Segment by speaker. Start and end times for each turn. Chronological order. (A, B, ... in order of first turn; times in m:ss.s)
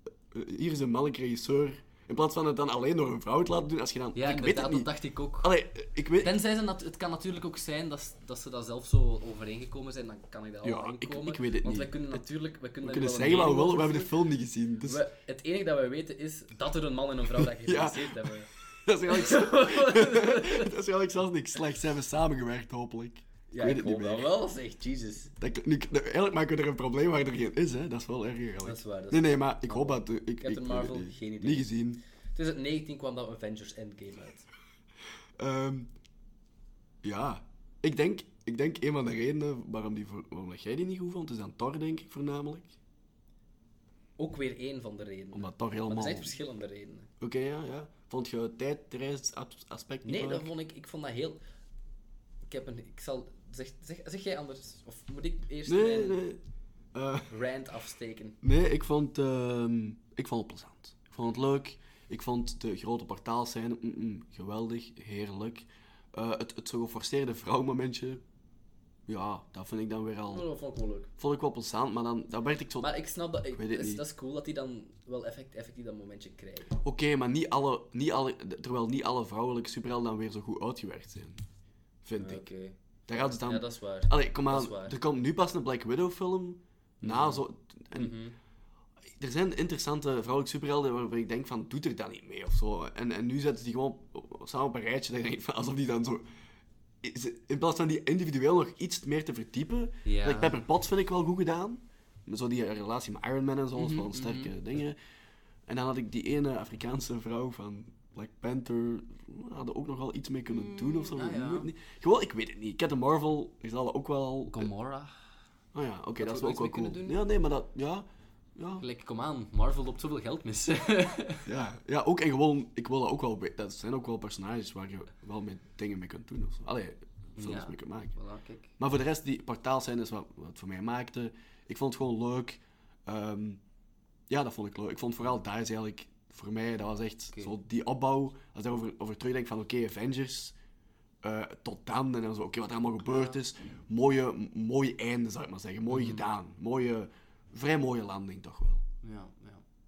0:00.3-0:04.9 A
0:04.2-0:05.5 B
0:05.4-0:06.4 A
0:06.2-0:14.2 B
0:10.6-0:12.2 A
0:12.8-0:15.0 A
0:14.8-0:18.5 B
0:17.4-0:24.3 A
0:19.1-0:20.7 B
0:23.5-0:25.3 B
0:25.4-0:32.0 A
0:28.6-0:31.7 B
0:32.4-0:34.5 B
0:35.4-0:35.9 A
0:37.0-0:42.8 A
0:44.2-0:47.1 B
0:45.3-0:46.4 A
0:47.2-0:50.5 A
0:50.0-0:51.4 B
0:52.5-0:56.2 B
0:55.7-0:56.4 A
0:56.9-0:57.3 A
0:57.3-0:58.4 B
0:58.4-1:08.2 A
1:09.1-1:10.4 A
1:10.3-1:11.1 B
1:11.2-1:12.9 A
1:12.8-1:16.8 B
1:13.5-1:14.0 A
1:16.8-1:21.4 A
1:22.0-1:22.5 A
1:22.2-1:25.0 B
1:23.1-1:28.2 A
1:27.0-1:28.4 B
1:29.2-1:36.2 A
1:37.0-1:45.0 A
1:40.0-1:40.6 B
1:43.8-1:44.5 B
1:45.7-1:54.7 A
1:50.5-1:51.7 B
1:54.5-1:55.2 B
1:55.7-1:58.8 A
1:56.2-1:57.2 B
1:58.8-2:01.5 B
2:01.5-2:08.1 A
2:07.4-2:08.8 B
2:08.8-2:13.6 A
2:14.3-2:20.6 A
2:21.2-2:28.8 A
2:25.9-2:26.3 B
2:29.0-2:29.6 B